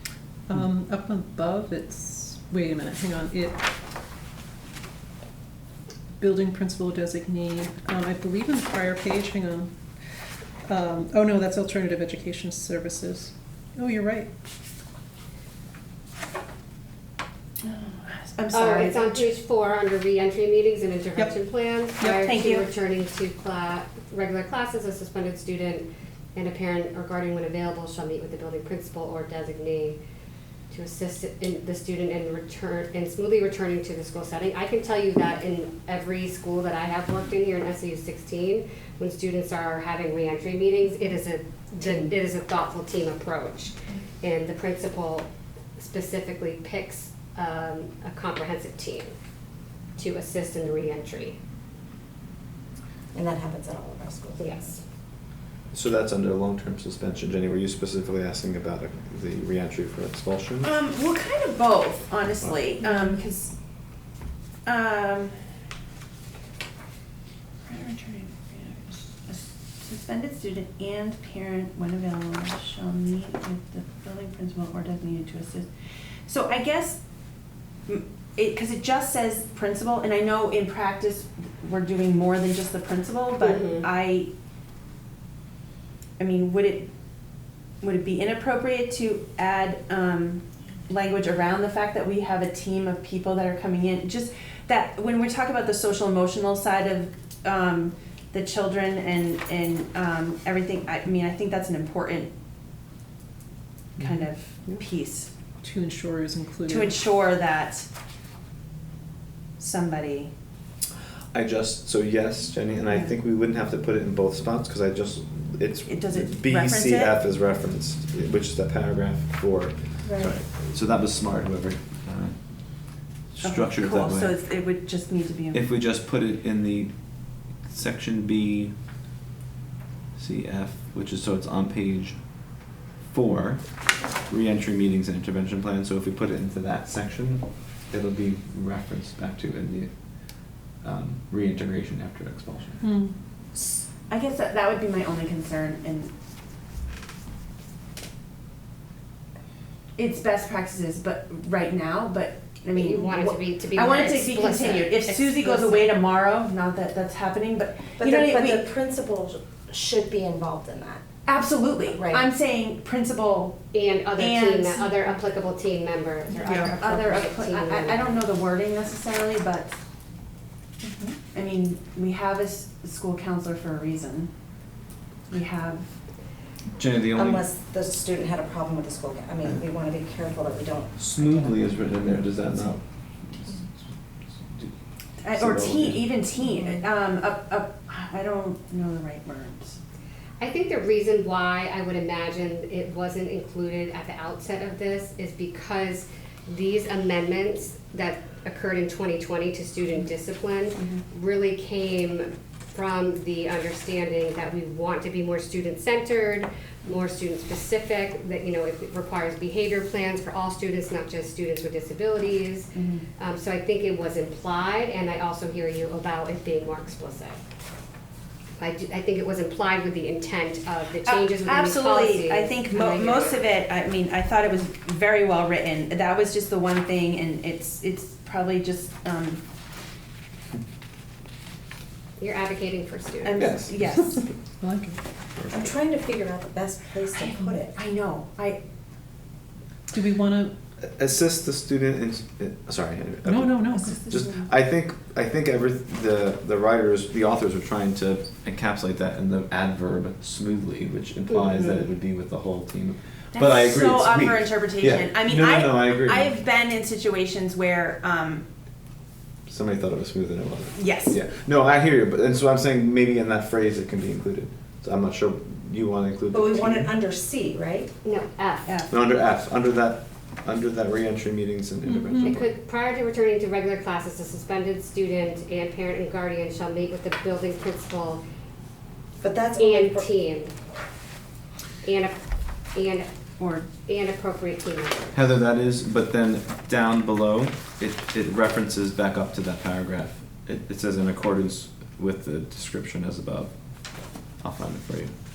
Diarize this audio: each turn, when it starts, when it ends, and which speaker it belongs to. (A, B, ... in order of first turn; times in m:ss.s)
0:00.5-0:03.6 A
0:06.2-0:09.7 A
0:10.7-0:14.3 A
0:17.6-0:19.3 B
0:18.5-0:30.0 C
0:22.0-0:22.3 A
0:22.2-0:22.7 B
0:30.7-0:49.1 C
0:50.0-0:51.4 C
0:53.1-0:54.8 D
0:54.4-0:54.8 C
0:55.7-1:00.7 E
1:00.6-1:03.5 B
1:04.7-1:05.4 B
1:07.7-1:15.7 B
1:16.3-1:17.0 B
1:17.9-1:24.3 B
1:23.4-1:23.8 C
1:26.2-1:26.9 B
1:27.8-1:42.3 B
1:44.0-1:45.3 B
1:45.6-1:47.0 A
1:46.7-1:47.9 B
1:49.6-1:50.3 B
1:51.3-2:02.4 E
1:55.9-1:57.1 B
2:00.0-2:00.4 D
2:03.3-2:04.4 E
2:03.4-2:05.6 B
2:05.5-2:08.7 E
2:10.2-2:12.2 E
2:13.1-2:13.6 E
2:14.2-2:22.8 E
2:22.8-2:23.1 A
2:24.1-2:26.1 B
2:30.0-2:38.7 B
2:32.7-2:35.7 C
2:38.0-2:41.0 D
2:41.3-2:43.6 B
2:41.9-2:42.3 D
2:43.7-2:48.2 C
2:44.2-2:45.0 B
2:46.4-2:49.8 B
2:51.2-2:54.3 B
2:55.3-2:55.9 B
2:56.8-2:57.5 E
2:57.1-3:01.8 D
3:01.0-3:04.8 E
3:05.2-3:09.8 B
3:05.3-3:06.1 E
3:06.4-3:06.8 D
3:10.4-3:37.4 C
3:32.7-3:33.0 B
3:38.6-3:43.4 C
3:41.0-3:49.4 B
3:52.2-3:53.5 C
3:53.2-3:54.2 B
3:53.4-3:53.8 E
3:53.9-3:55.0 A
3:55.4-3:55.7 E
3:55.5-3:57.7 D
3:57.2-3:58.6 B
3:59.9-4:00.5 A
4:00.8-4:16.3 E
4:03.2-4:04.0 A
4:03.7-4:04.5 B
4:13.3-4:18.4 B
4:19.5-4:26.9 E
4:20.8-4:21.2 B
4:26.3-4:27.9 D
4:28.0-4:28.7 C
4:28.7-4:28.9 B
4:28.9-4:32.5 E
4:31.8-4:32.4 A
4:32.2-4:38.2 C
4:39.2-4:40.1 D
4:39.6-4:40.5 C
4:41.8-4:42.2 C
4:42.8-4:43.1 C
4:43.4-4:43.7 B
4:43.9-4:45.2 C
4:45.1-4:53.5 E
4:54.4-4:55.1 E